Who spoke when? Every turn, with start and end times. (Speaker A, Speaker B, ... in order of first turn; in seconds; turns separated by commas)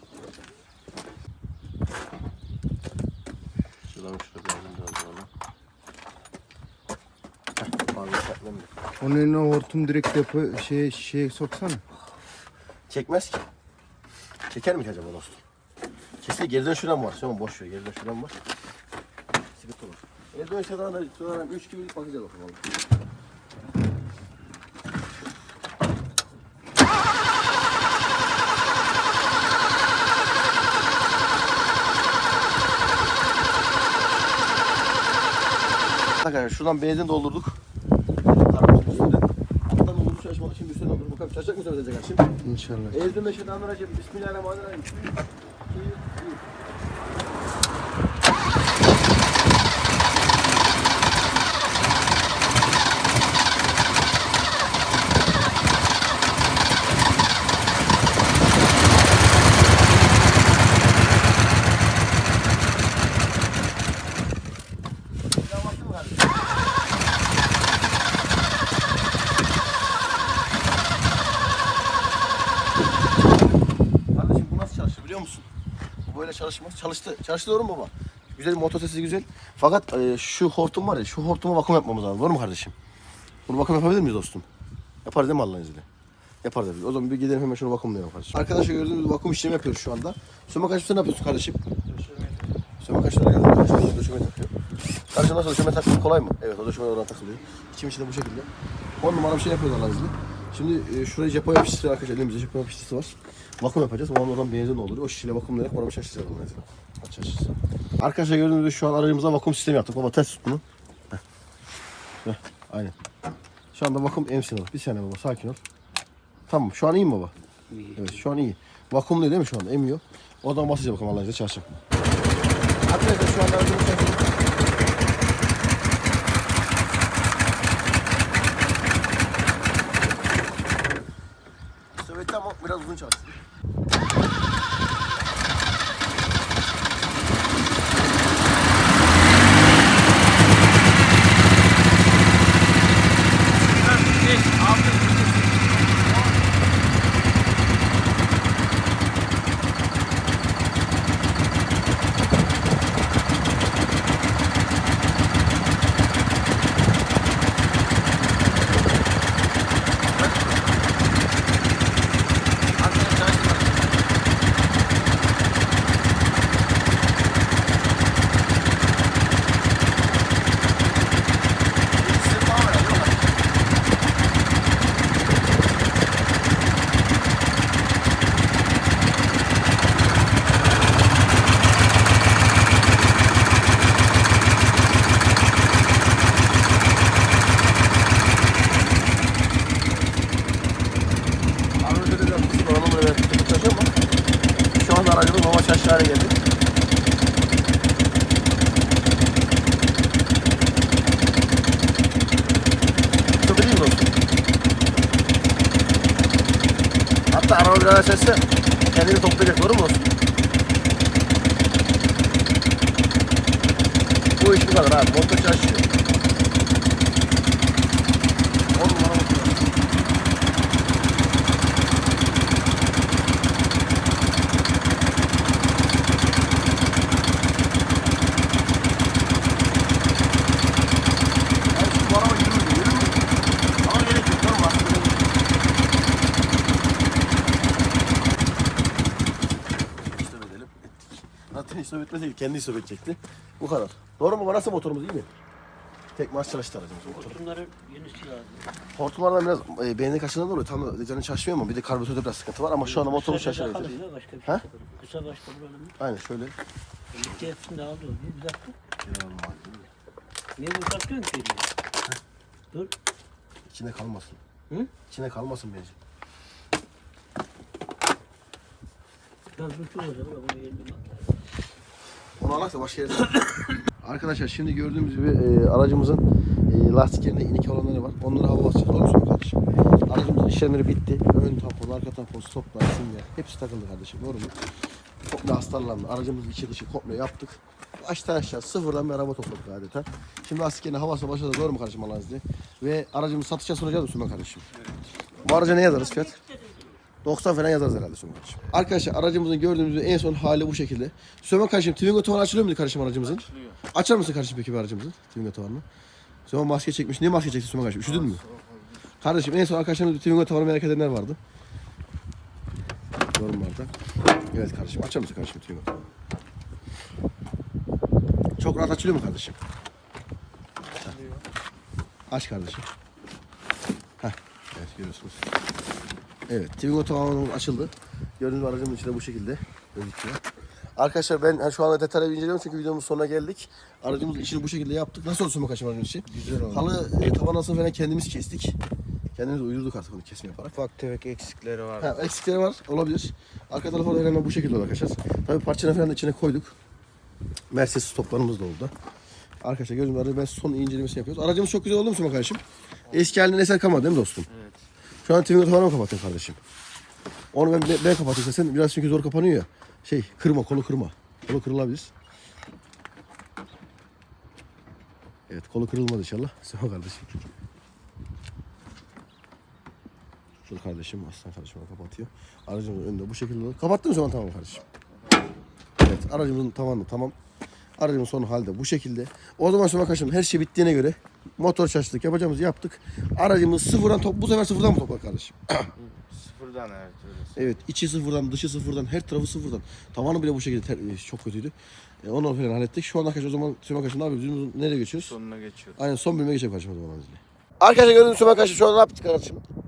Speaker A: 3.9-5.3, Speaker A: 7.6-8.7, Speaker B: 9.0-11.8, Speaker A: 12.9-13.4, Speaker A: 14.5-15.4, Speaker A: 16.2-18.3, Speaker A: 19.6-22.6, Speaker A: 36.2-37.6, Speaker A: 38.2-42.3, Speaker B: 42.5-42.9, Speaker A: 42.9-46.4, Speaker A: 65.3-66.5, Speaker A: 74.1-75.5, Speaker A: 76.1-82.7, Speaker A: 83.5-84.5, Speaker A: 85.0-85.8, Speaker A: 86.4-91.6, Speaker B: 91.9-92.2, Speaker A: 92.8-94.5, Speaker A: 95.1-111.2, Speaker A: 112.2-112.9, Speaker A: 113.7-115.6, Speaker A: 116.5-117.3, Speaker C: 117.7-118.0, Speaker A: 117.9-121.7, Speaker A: 122.8-124.3, Speaker A: 131.9-133.4, Speaker B: 143.6-146.3, Speaker A: 160.1-160.9, Speaker A: 162.8-164.1, Speaker A: 171.9-173.4, Speaker A: 191.8-193.9, Speaker A: 194.7-196.4, Speaker A: 203.4-204.1, Speaker A: 207.3-210.1, Speaker A: 214.3-215.9, Speaker A: 218.7-219.7, Speaker A: 231.7-233.3, Speaker A: 233.8-235.3, Speaker A: 240.0-245.3, Speaker A: 246.1-247.4, Speaker C: 247.0-248.7, Speaker A: 248.9-254.6, Speaker C: 252.8-255.9, Speaker A: 256.0-256.5, Speaker C: 257.1-258.8, Speaker A: 259.0-259.9, Speaker C: 260.6-261.7, Speaker A: 263.6-264.4, Speaker A: 265.1-265.9, Speaker C: 269.5-271.0, Speaker A: 272.4-284.6, Speaker A: 285.2-294.7, Speaker A: 295.4-296.4, Speaker C: 295.6-296.9, Speaker A: 297.2-305.8, Speaker B: 303.4-303.7, Speaker A: 306.5-308.4, Speaker B: 308.0-308.8, Speaker A: 309.2-311.4, Speaker A: 313.3-313.9, Speaker A: 314.5-315.9, Speaker A: 318.6-319.6, Speaker B: 321.0-321.4, Speaker A: 322.3-322.9, Speaker A: 324.2-325.4, Speaker A: 326.5-330.4, Speaker A: 330.9-338.8, Speaker B: 336.3-336.9, Speaker A: 339.4-340.8, Speaker B: 340.7-342.1, Speaker A: 342.0-346.8, Speaker A: 347.7-348.9, Speaker A: 349.6-354.5, Speaker B: 353.1-353.4, Speaker B: 354.5-354.8, Speaker A: 355.2-356.6, Speaker A: 357.5-362.1, Speaker A: 365.5-367.4, Speaker A: 370.6-374.8, Speaker A: 376.0-377.3, Speaker A: 378.0-385.9, Speaker B: 386.0-387.7, Speaker A: 387.6-395.3, Speaker B: 395.1-396.0, Speaker A: 396.0-399.6